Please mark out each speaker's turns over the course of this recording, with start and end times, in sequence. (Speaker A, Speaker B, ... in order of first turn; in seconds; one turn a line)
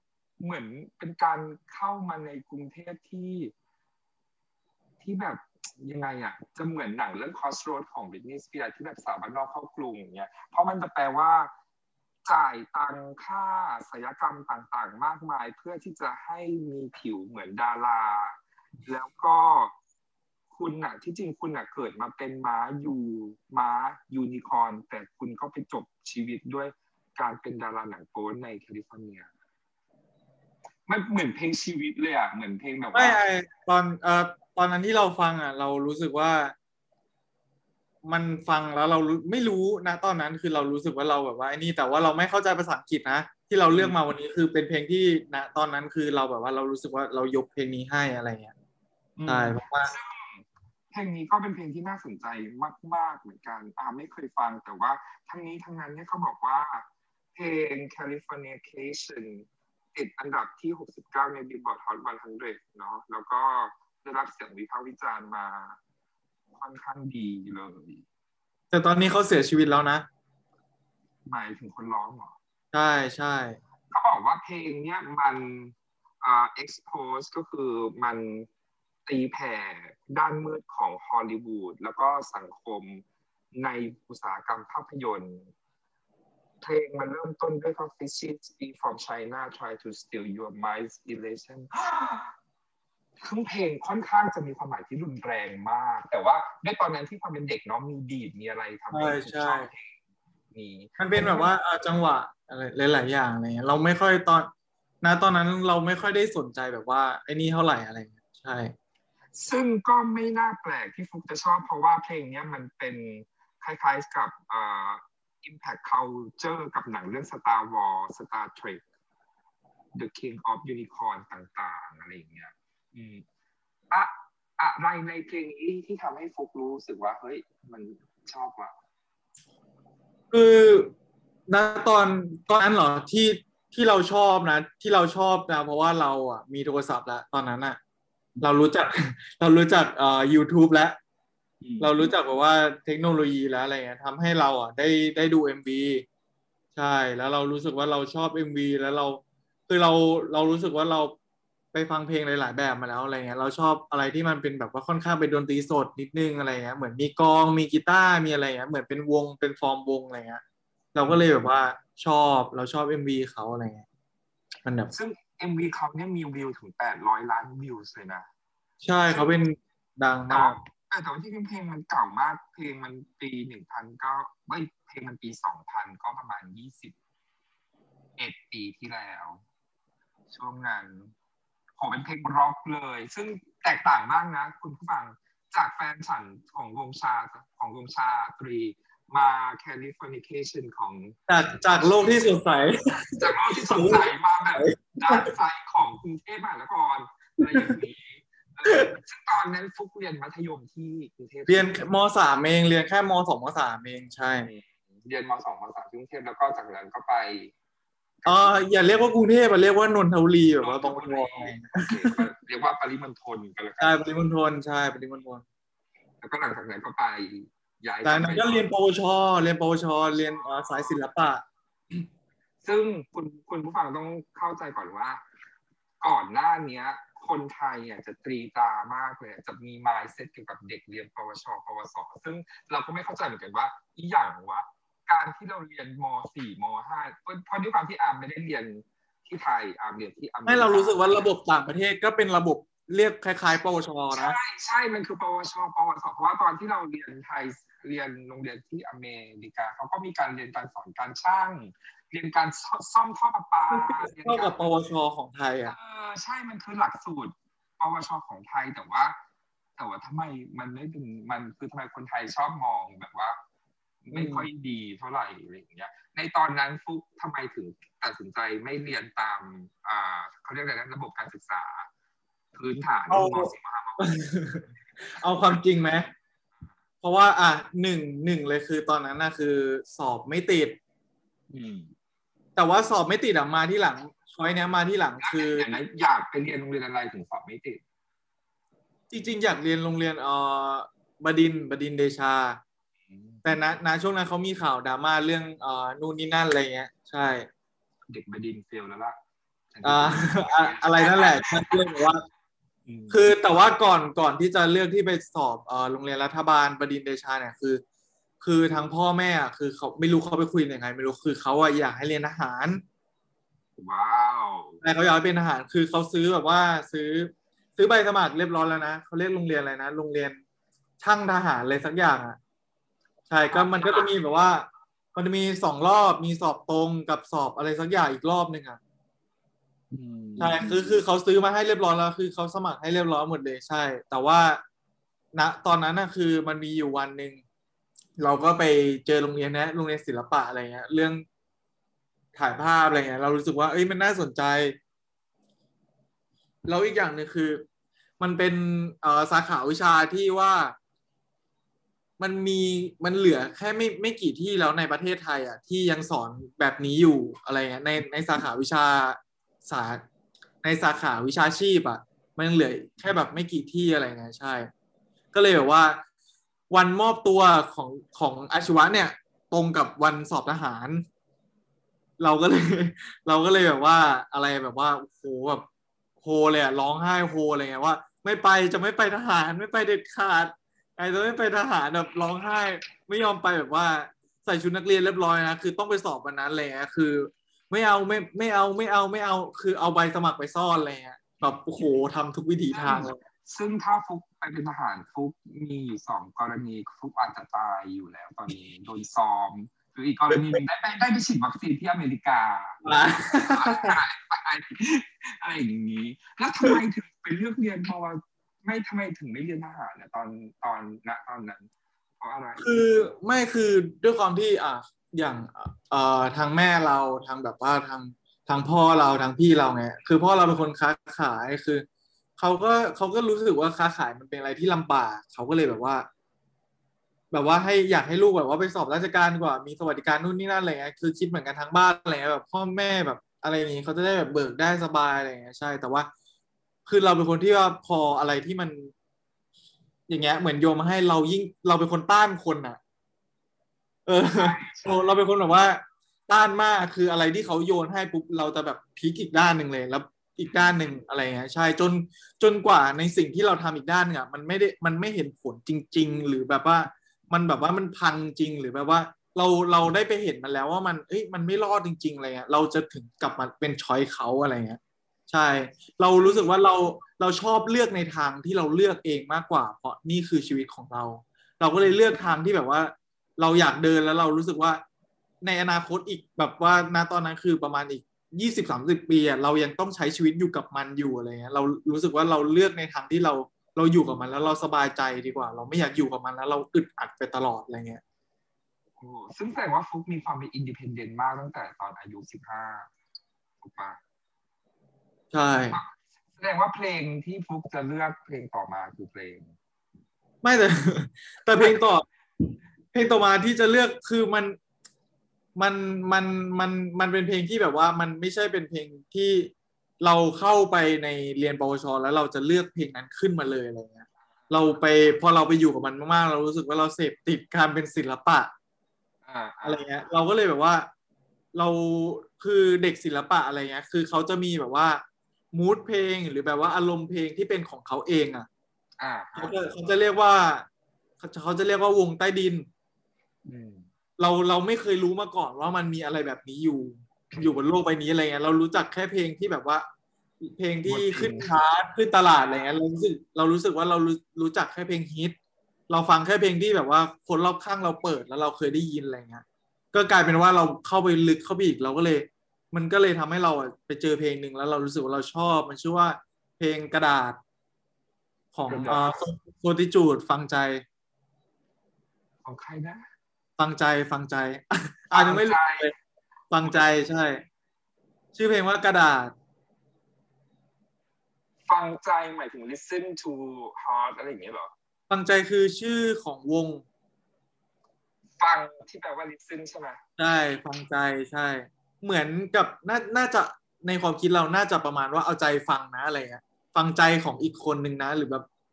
Speaker A: 0.4-3.5
Speaker A: 5.0-11.5
Speaker A: 12.2-19.8
Speaker A: 20.5-29.3
Speaker A: 30.9-33.2
Speaker B: 32.9-36.5
Speaker B: 38.0-48.5
Speaker A: 43.7-44.0
Speaker A: 49.2-65.8
Speaker B: 49.3-49.9
Speaker A: 66.5-68.0
Speaker B: 68.7-70.1
Speaker A: 71.3-72.3
Speaker B: 72.7-73.6
Speaker A: 73.9-78.5
Speaker A: 79.1-85.5
Speaker A: 86.6-92.3
Speaker A: 93.2-100.0
Speaker B: 98.9-99.7
Speaker A: 100.5-101.5
Speaker B: 101.0-104.5
Speaker B: 105.0-108.7
Speaker A: 109.3-118.8
Speaker A: 120.0-123.2
Speaker A: 123.9-128.8
Speaker B: 130.3-130.9
Speaker B: 131.5-137.8
Speaker B: 138.4-141.0
Speaker A: 141.6-142.1
Speaker B: 141.8-146.1
Speaker B: 146.8-151.2
Speaker B: 151.7-160.4
Speaker B: 160.9-163.8
Speaker A: 161.0-161.3
Speaker B: 164.6-164.9
Speaker A: 164.9-168.3
Speaker B: 168.8-170.6
Speaker A: 170.3-176.9
Speaker A: 178.2-179.4
Speaker A: 180.3-181.1
Speaker A: 181.8-191.2
Speaker B: 191.3-195.3
Speaker A: 193.2-201.8
Speaker B: 197.5-197.8
Speaker B: 198.7-198.9
Speaker B: 201.5-204.5
Speaker A: 204.4-207.5
Speaker A: 208.2-208.7
Speaker B: 208.3-212.2
Speaker A: 210.6-214.1
Speaker B: 213.8-215.4
Speaker A: 216.2-218.7
Speaker B: 218.0-221.4
Speaker A: 220.2-221.0
Speaker A: 222.6-225.2
Speaker A: 226.0-241.3
Speaker B: 240.5-244.4
Speaker A: 244.1-254.7
Speaker B: 253.7-255.8
Speaker A: 255.7-259.2
Speaker A: 259.8-263.4
Speaker A: 264.1-271.9
Speaker B: 264.1-264.5
Speaker A: 272.5-274.1
Speaker B: 273.1-276.1
Speaker B: 277.0-280.8
Speaker A: 281.5-281.9
Speaker B: 282.6-285.7
Speaker A: 285.2-287.8
Speaker B: 289.1-292.6
Speaker A: 293.1-293.4
Speaker B: 293.4-297.5
Speaker A: 298.1-299.2
Speaker A: 299.7-301.9
Speaker B: 299.8-302.2
Speaker A: 302.9-303.2
Speaker B: 303.1-307.8
Speaker B: 308.4-312.8
Speaker A: 313.8-314.8
Speaker B: 314.8-320.4
Speaker B: 321.0-322.4
Speaker B: 323.3-328.8
Speaker A: 323.5-324.1
Speaker A: 329.9-331.0
Speaker B: 330.4-334.6
Speaker B: 335.3-337.4
Speaker B: 338.2-341.2
Speaker B: 342.4-344.8
Speaker B: 346.7-347.6
Speaker B: 348.2-350.8
Speaker B: 352.2-360.0
Speaker B: 360.6-364.7
Speaker B: 365.3-366.0
Speaker B: 366.7-371.1
Speaker B: 372.2-375.6
Speaker B: 376.2-393.2
Speaker A: 392.7-411.7
Speaker B: 402.8-404.0
Speaker A: 412.2-412.7
Speaker B: 412.6-421.9
Speaker B: 422.4-426.1
Speaker B: 427.3-436.1
Speaker B: 436.9-438.9
Speaker B: 440.1-442.8
Speaker B: 444.1-474.8
Speaker A: 444.3-445.1
Speaker A: 450.4-450.8
Speaker A: 466.2-466.6
Speaker B: 475.4-488.0
Speaker A: 489.0-492.9
Speaker A: 493.6-494.0
Speaker B: 495.3-495.8
Speaker A: 495.7-499.6
Speaker B: 500.4-502.1
Speaker B: 502.9-504.6
Speaker B: 505.6-518.5
Speaker A: 519.3-519.9
Speaker B: 519.6-520.9
Speaker B: 521.5-528.5
Speaker A: 529.0-529.5
Speaker B: 529.4-530.7
Speaker B: 531.2-532.7
Speaker A: 533.5-533.9
Speaker B: 534.2-539.9
Speaker B: 540.4-545.4
Speaker A: 540.9-541.5
Speaker B: 545.9-557.4
Speaker B: 558.5-560.8
Speaker A: 558.7-559.3
Speaker A: 562.5-563.0
Speaker B: 563.6-565.9
Speaker A: 565.1-565.9
Speaker B: 566.5-567.4
Speaker B: 568.3-569.3
Speaker A: 571.7-574.7
Speaker B: 575.1-576.8
Speaker A: 578.4-580.0
Speaker B: 580.2-588.5